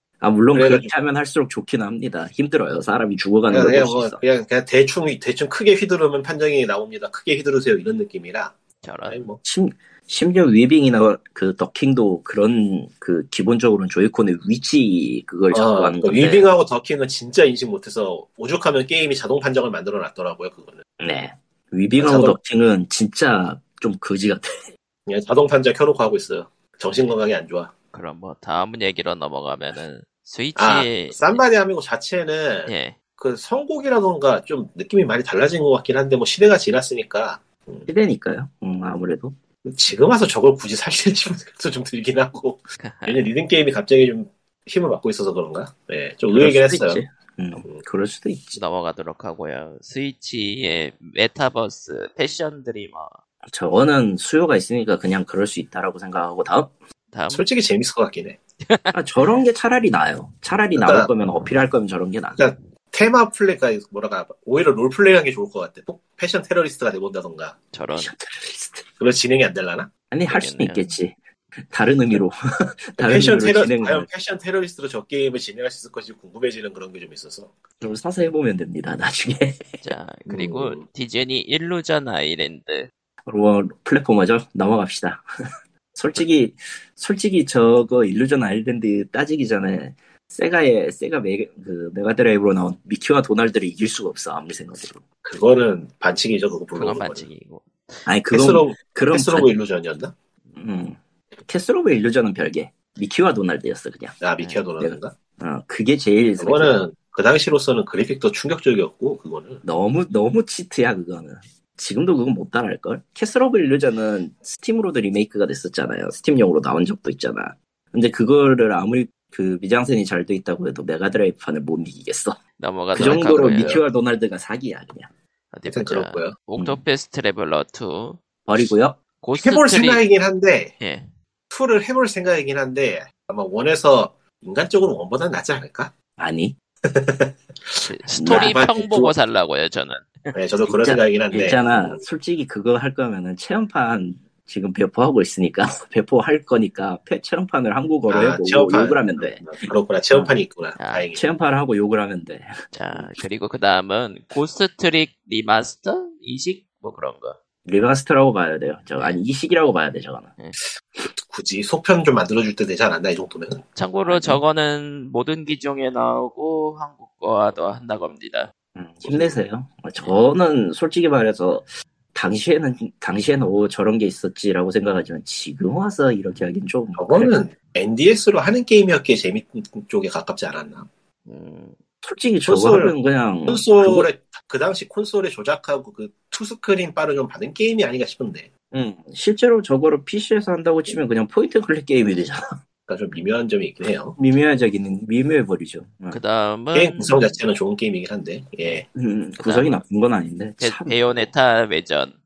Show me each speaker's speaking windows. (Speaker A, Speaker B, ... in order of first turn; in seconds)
Speaker A: 0.2-4.2, 9.4-16.5, 21.0-24.5, 37.9-39.4, 46.3-48.6, 53.5-56.7, 58.9-62.4, 68.0-68.9, 70.1-72.4, 72.9-74.1, 77.8-79.8, 83.2-85.3, 86.0-95.0, 98.1-99.5, 100.5-104.2, 104.8-106.8, 109.6-122.4, 122.9-125.1, 128.5-129.0, 136.2-136.6, 138.2-138.9, 140.7-149.6, 151.1-153.1, 157.7-160.4, 164.1-164.4, 168.8-177.3, 182.0-184.1, 188.7-192.4, 194.2-196.2, 198.9-201.3
Speaker B: 0.5-0.9, 3.5-8.6, 9.1-9.4, 15.5-20.8, 22.0-22.4, 25.1-27.7, 30.6-37.9, 39.6-47.0, 57.3-58.4, 60.8-61.1, 62.4-67.6, 69.0-69.9, 73.0-77.6, 80.3-80.8, 95.2-97.3, 98.3-100.1, 104.2-105.2, 106.4-109.6, 125.7-126.3, 129.4-130.8, 131.5-135.9, 136.8-139.1, 140.3-142.0, 148.1-151.2, 161.0-163.7, 169.1-169.3, 177.0-180.9, 182.5-182.9, 183.5-188.5, 192.9-194.2, 196.7-198.9
Speaker C: 8.8-9.2, 27.9-31.4, 32.7-33.0, 42.8-43.3, 48.5-53.1, 57.1-57.5, 58.6-59.0, 67.7-68.1, 70.3-70.9, 79.8-82.9, 96.8-98.0, 122.6-123.8, 125.5-128.2, 129.2-130.0, 130.8-131.1, 137.8-140.3, 150.8-151.1, 152.7-157.4, 163.8-168.5, 181.3-181.8, 196.1-197.3, 199.4-199.8, 200.6-202.2